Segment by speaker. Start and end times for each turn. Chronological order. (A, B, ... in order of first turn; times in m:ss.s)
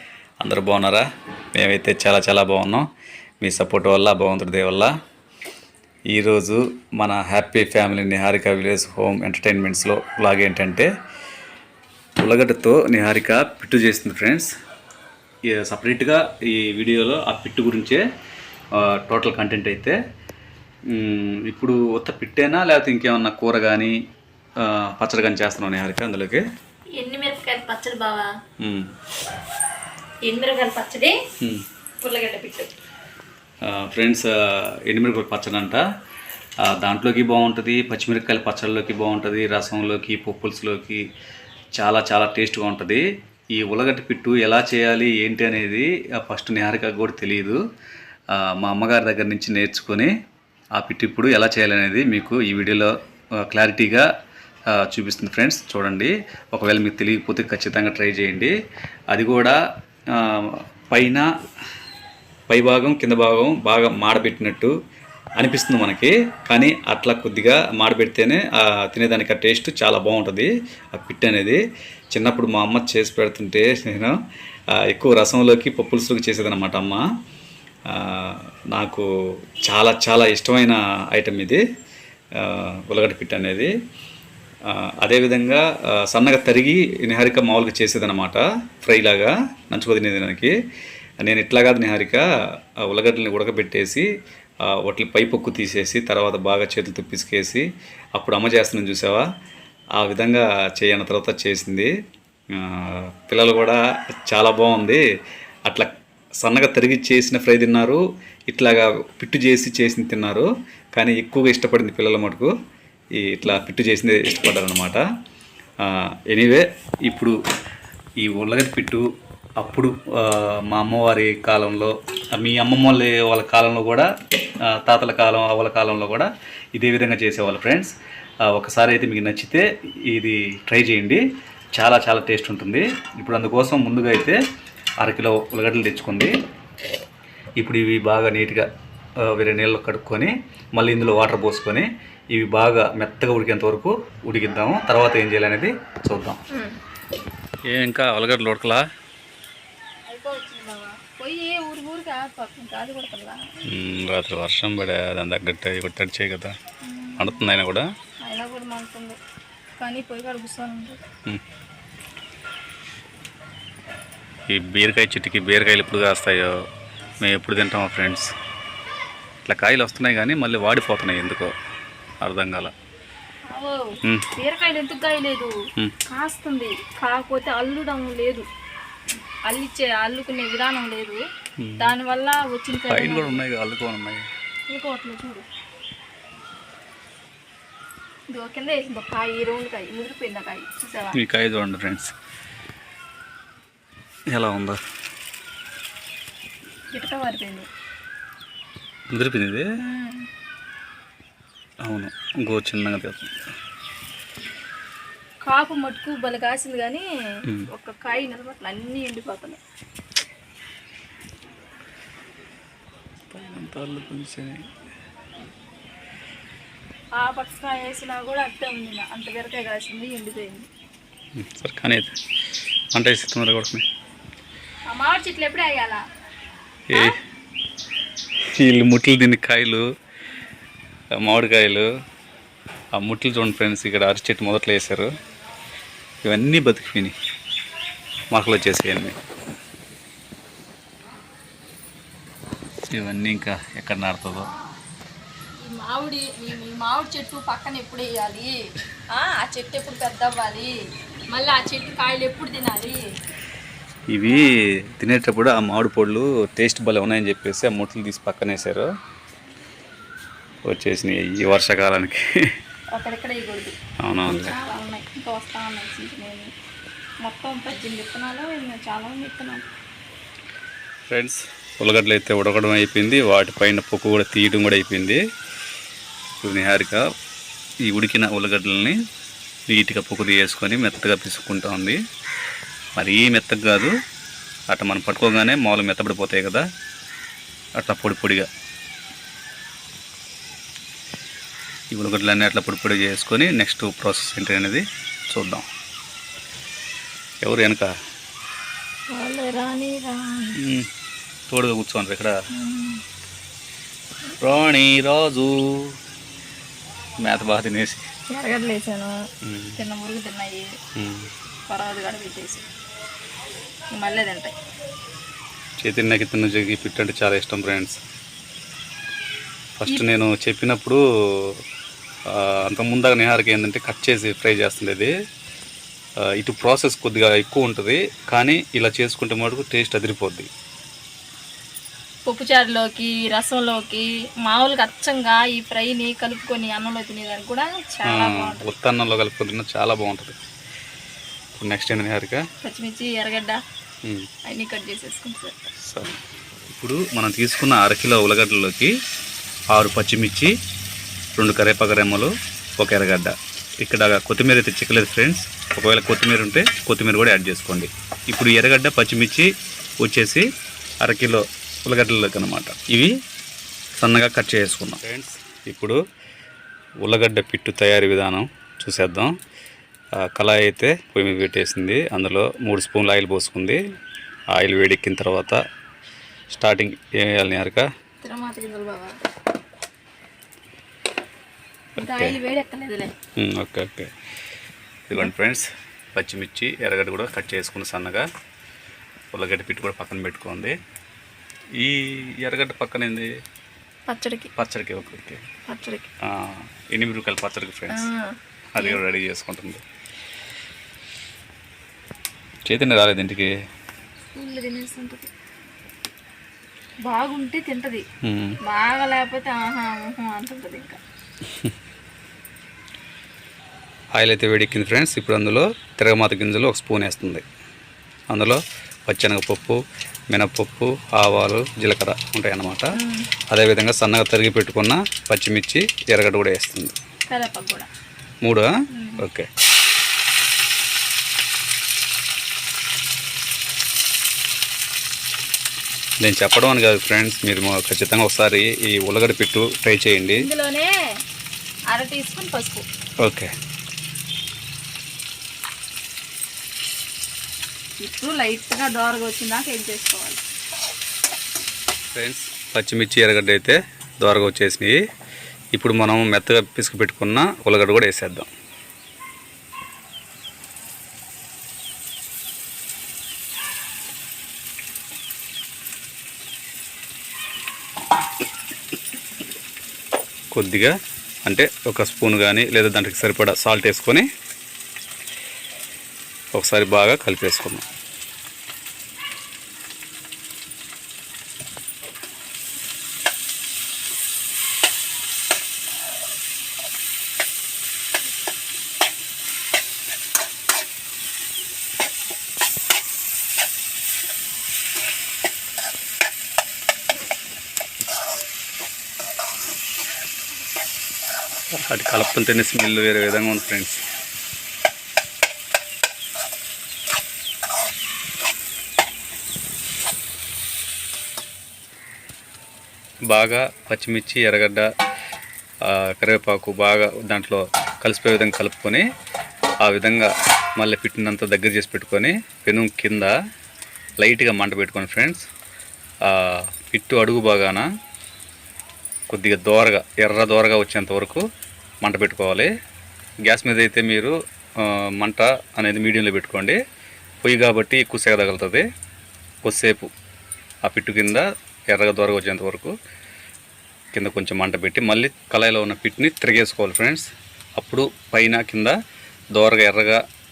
0:00.4-0:02.9 A
0:03.4-0:04.9 A
0:06.1-0:10.9 A
0:12.2-0:14.5 A
0:15.5-0:18.0 A
0:18.7-0:20.0 A
0:20.9-0:24.0 A
0:24.6-0:26.4 A
0:27.0-0:28.3 B
0:28.6-0:28.9 A
0:30.2-0:31.2 B
0:32.0-0:32.7 B
0:33.6-0:35.8 A
0:36.6-0:41.0 A
0:41.8-0:47.6 A
0:48.3-0:50.1 A
0:50.8-0:54.1 A
0:54.7-0:58.6 A
0:59.1-0:59.6 A
1:00.1-1:01.3 A
1:02.5-1:04.7 A
1:05.4-1:11.6 A
1:12.1-1:14.2 A
1:14.8-1:17.0 A
1:17.9-1:19.1 A
1:19.6-1:21.6 A
1:22.4-1:23.7 A
1:24.7-1:30.6 A
1:31.2-1:32.3 A
1:32.8-1:34.1 A
1:34.6-1:39.3 A
1:40.0-1:41.9 A
1:42.5-1:45.0 A
1:45.7-1:52.5 A
1:53.2-1:55.0 A
1:55.8-1:57.4 A
1:58.2-1:59.1 A
1:59.6-2:04.1 A
2:04.6-2:07.9 A
2:08.5-2:11.2 A
2:11.8-2:14.4 A
2:15.0-2:16.3 A
2:17.6-2:18.7 A
2:19.2-2:26.4 A
2:26.5-2:26.8 B
2:27.7-2:28.8 A
2:30.1-2:33.6 B
2:33.6-2:36.6 A
2:36.8-2:37.4 B
2:37.2-2:37.9 A
2:38.2-2:39.2 B
2:39.8-2:41.0 B
2:44.5-2:46.6 A
2:47.2-2:48.3 A
2:49.4-2:51.5 A
2:52.2-2:52.7 A
2:53.5-2:55.5 B
2:56.1-2:58.5 B
2:59.4-3:01.2 B
3:01.6-3:01.9 A
3:01.8-3:03.4 B
3:02.9-3:04.2 A
3:04.7-3:05.5 B
3:08.3-3:11.2 B
3:11.1-3:12.1 A
3:14.3-3:14.8 A
3:16.9-3:17.7 B
3:19.1-3:19.7 A
3:19.8-3:20.3 B
3:21.8-3:23.3 A
3:25.4-3:27.0 B
3:27.6-3:29.6 B
3:33.3-3:34.7 A
3:37.2-3:40.7 B
3:41.4-3:42.2 A
3:42.9-3:43.8 A
3:44.9-3:46.0 B
3:48.5-3:49.8 A
3:51.1-3:51.9 A
3:52.9-3:55.1 A
3:56.2-3:57.1 A
3:58.3-3:59.2 A
4:02.9-4:04.5 A
4:05.6-4:10.7 B
4:11.3-4:13.1 B
4:14.1-4:18.9 A
4:20.6-4:22.3 A
4:22.9-4:23.8 B
4:24.0-4:24.6 A
4:24.3-4:26.5 B
4:27.2-4:29.7 B
4:31.1-4:35.2 A
4:36.4-4:37.1 A
4:37.9-4:39.0 A
4:39.7-4:42.0 A
4:43.0-4:43.9 A
4:44.7-4:46.6 A
4:47.8-4:48.5 A
4:51.9-4:55.7 A
4:57.4-4:57.9 A
4:59.1-5:00.6 B
5:00.6-5:00.9 A
5:01.5-5:02.3 A
5:02.5-5:03.0 B
5:04.4-5:06.0 A
5:07.2-5:08.1 A
5:08.3-5:09.2 B
5:09.4-5:09.8 A
5:09.8-5:10.7 B
5:11.0-5:11.3 A
5:11.7-5:12.7 B
5:13.9-5:14.5 B
5:15.8-5:18.0 A
5:19.8-5:21.6 A
5:22.3-5:25.1 A
5:26.3-5:30.5 A
5:32.3-5:38.7 B
5:38.0-5:40.4 A
5:41.6-5:42.4 A
5:42.6-5:43.6 B
5:44.5-5:45.6 B
5:45.8-5:46.2 A
5:46.7-5:48.9 A
5:49.7-5:50.5 A
5:51.4-6:00.5 A
6:01.0-6:03.1 A
6:04.0-6:06.0 A
6:07.0-6:09.4 A
6:10.2-6:13.8 A
6:14.5-6:15.6 A
6:16.5-6:17.9 A
6:18.2-6:19.2 B
6:22.0-6:23.1 B
6:22.0-6:22.4 A
6:23.4-6:24.1 A
6:25.1-6:28.3 A
6:29.3-6:30.8 A
6:31.8-6:33.3 A
6:34.1-6:34.5 B
6:34.6-6:35.4 A
6:35.7-6:36.1 B
6:36.2-6:38.1 A
6:37.9-6:39.0 B
6:38.7-6:39.8 A
6:42.7-6:43.5 A
6:44.3-6:45.3 B
6:47.0-6:48.0 B
6:48.2-6:48.6 A
6:48.6-6:51.0 B
6:54.2-6:57.4 A
6:58.3-7:03.0 A
7:03.0-7:03.3 B
7:03.5-7:07.0 A
7:07.3-7:07.9 B
7:08.4-7:09.5 A
7:08.9-7:09.2 B
7:16.2-7:20.5 A
7:20.4-7:20.9 B
7:21.9-7:22.9 B
7:23.2-7:23.5 A
7:28.0-7:30.4 B
7:32.1-7:35.0 A
7:35.8-7:38.5 A
7:50.5-7:50.9 A
7:51.4-7:54.3 A
7:56.5-7:57.9 A
8:21.7-8:24.0 A
8:33.3-8:34.9 A
8:35.8-8:39.1 A
8:39.8-8:43.4 A
8:44.2-8:45.5 A
8:46.2-8:47.9 A
8:49.3-8:51.4 A
8:52.0-8:52.7 A
8:53.4-8:56.8 A
8:57.4-8:58.9 A
8:59.6-9:00.1 A
9:00.8-9:03.0 A
9:04.1-9:09.0 A
9:09.6-9:10.2 A